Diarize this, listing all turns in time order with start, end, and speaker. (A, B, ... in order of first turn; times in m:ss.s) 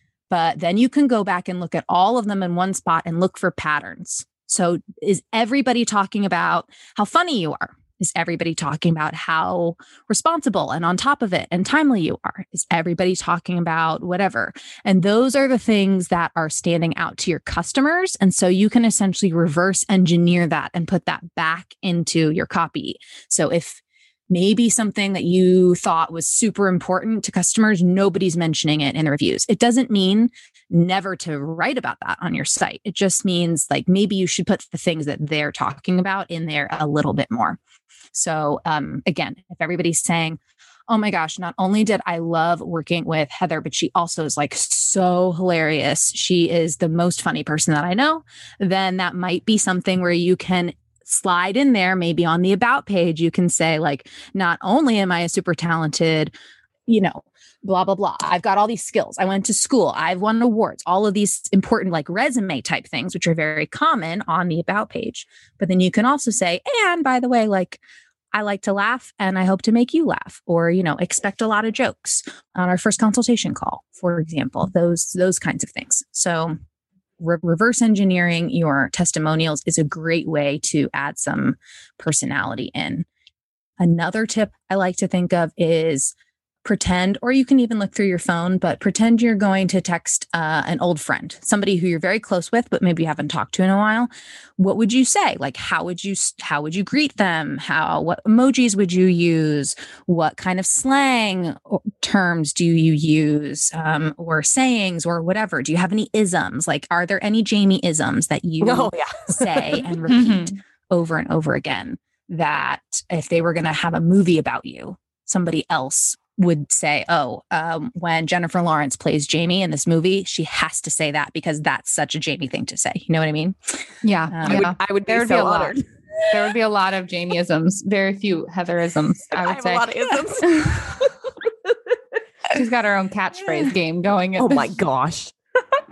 0:00.3-0:37.6 A
0:38.1-0:56.3 A
0:56.9-1:07.8 A
1:08.3-1:16.5 A
1:17.2-1:23.0 A
1:23.8-1:26.1 A
1:26.6-2:04.7 A
1:48.6-1:49.8 B
1:50.1-1:50.6 C
2:04.0-2:10.8 C
2:04.4-2:06.2 B
2:09.3-2:11.2 B
2:12.5-2:14.8 C
2:14.4-2:15.3 B